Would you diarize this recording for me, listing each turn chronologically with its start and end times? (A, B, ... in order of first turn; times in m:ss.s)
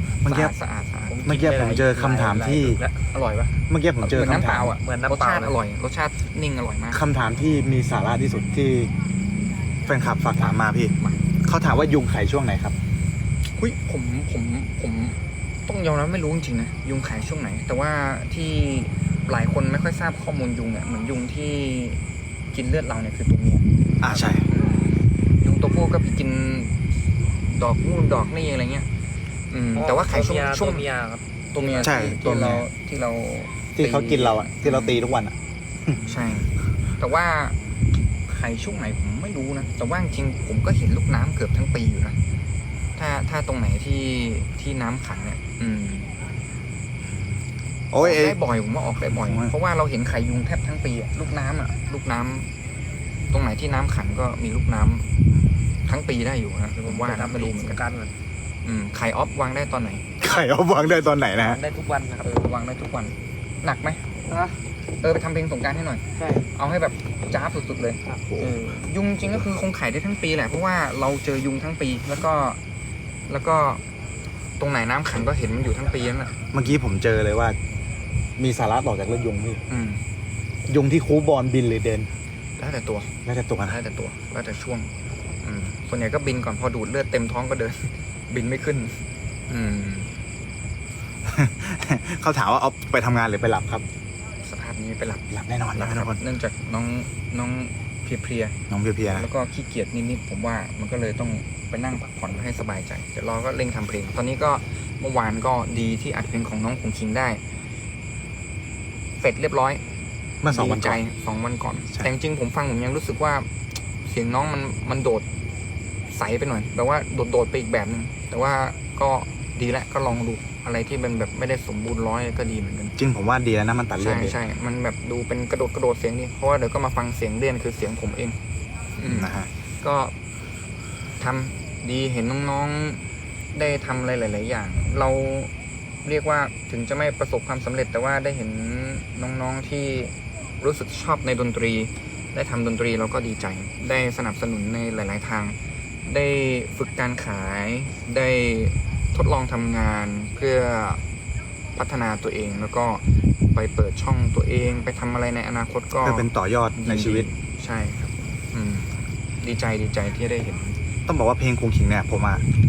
0:00.2-0:00.5 A
0:00.2-0:01.2 B
0:01.0-0:03.0 C
0:01.2-0:02.8 A
0:03.1-0:07.0 B
0:03.7-0:04.8 A
0:04.8-0:05.6 C
0:06.9-0:08.9 A
0:09.8-0:12.8 A
0:10.4-0:11.3 B
0:13.6-0:23.7 B
0:24.0-0:24.4 A
0:25.4-0:28.9 B
0:29.5-0:30.8 B
0:29.8-0:32.1 C
0:31.5-0:35.2 B
0:31.8-0:32.6 A
0:33.8-0:36.3 A
0:35.9-0:37.6 B
0:38.3-0:42.2 B
0:43.0-0:46.1 B
0:47.0-0:48.4 A
0:48.0-0:52.5 B
0:49.1-0:49.5 A
0:53.3-0:55.1 B
0:55.8-0:57.8 B
0:56.7-0:58.1 C
0:58.6-1:00.0 B
1:00.2-1:01.6 A
1:01.4-1:02.4 C
1:02.2-1:04.1 B
1:04.3-1:04.6 C
1:05.0-1:06.0 B
1:06.2-1:06.5 C
1:06.5-1:08.0 B
1:08.1-1:08.9 C
1:08.7-1:12.6 B
1:13.3-1:13.8 B
1:14.6-1:16.4 B
1:16.5-1:17.6 A
1:18.4-1:19.6 A
1:19.7-1:20.0 B
1:20.7-1:22.1 A
1:22.6-1:23.1 B
1:23.2-1:23.8 A
1:23.7-1:24.9 B
1:25.4-1:30.1 B
1:31.2-1:33.8 A
1:34.4-1:47.4 B
1:35.3-1:36.2 A
1:38.7-1:39.2 A
1:49.2-1:49.8 B
1:50.4-1:51.0 A
1:50.5-1:53.5 B
1:54.0-1:55.2 B
1:56.1-2:02.9 B
2:03.0-2:04.4 A
2:04.0-2:08.4 B
2:09.0-2:10.1 B
2:09.0-2:09.5 A
2:11.2-2:13.0 B
2:13.5-2:15.5 B
2:16.0-2:31.0 B
2:31.8-2:40.8 B
2:36.0-2:37.3 A
2:41.1-2:42.4 A